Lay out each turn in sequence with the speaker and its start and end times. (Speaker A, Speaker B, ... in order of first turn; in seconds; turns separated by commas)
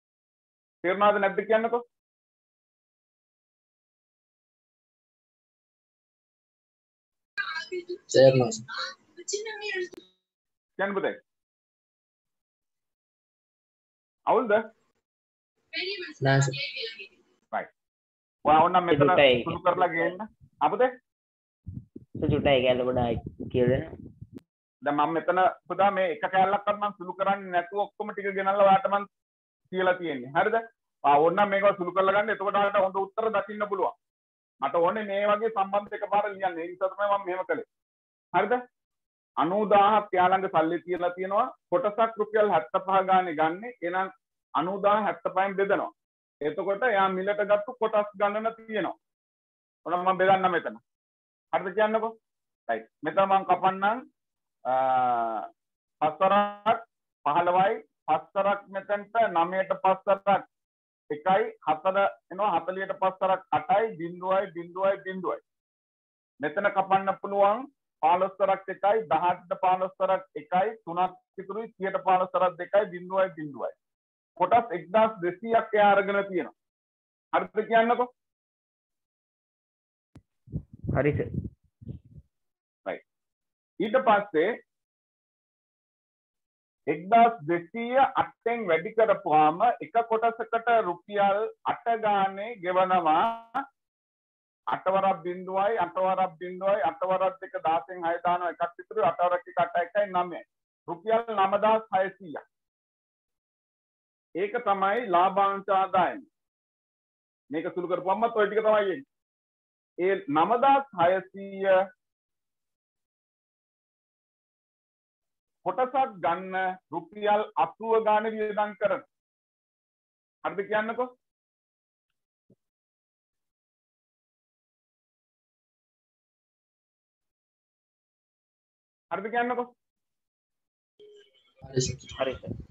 Speaker A: 0.8-1.8, Speaker B: 7.9-8.8, Speaker B: 9.3-9.9, Speaker A: 10.8-11.2, Speaker A: 14.3-14.6, Speaker B: 15.8-17.0, Speaker A: 18.5-20.9, Speaker C: 18.9-20.1, Speaker C: 22.2-23.9, Speaker A: 24.8-29.1, Speaker A: 29.7-33.9, Speaker A: 34.6-37.7, Speaker A: 38.3-38.6, Speaker A: 39.4-45.9, Speaker A: 46.4-49.0, Speaker A: 49.9-50.8, Speaker A: 51.5-52.1, Speaker A: 52.7-54.0, Speaker A: 54.7-55.5, Speaker A: 56.0-60.5, Speaker A: 61.1-65.4, Speaker A: 66.4-73.8, Speaker A: 74.4-76.5, Speaker A: 77.3-78.1, Speaker C: 80.9-81.5, Speaker A: 83.8-84.5, Speaker A: 86.9-93.6, Speaker A: 94.7-102.4, Speaker A: 104.4-106.3, Speaker A: 107.5-109.0, Speaker A: 110.0-111.8, Speaker A: 115.7-119.0, Speaker A: 120.5-121.1, Speaker A: 129.1-129.7, Speaker B: 131.6-132.1, Speaker C: 132.2-132.5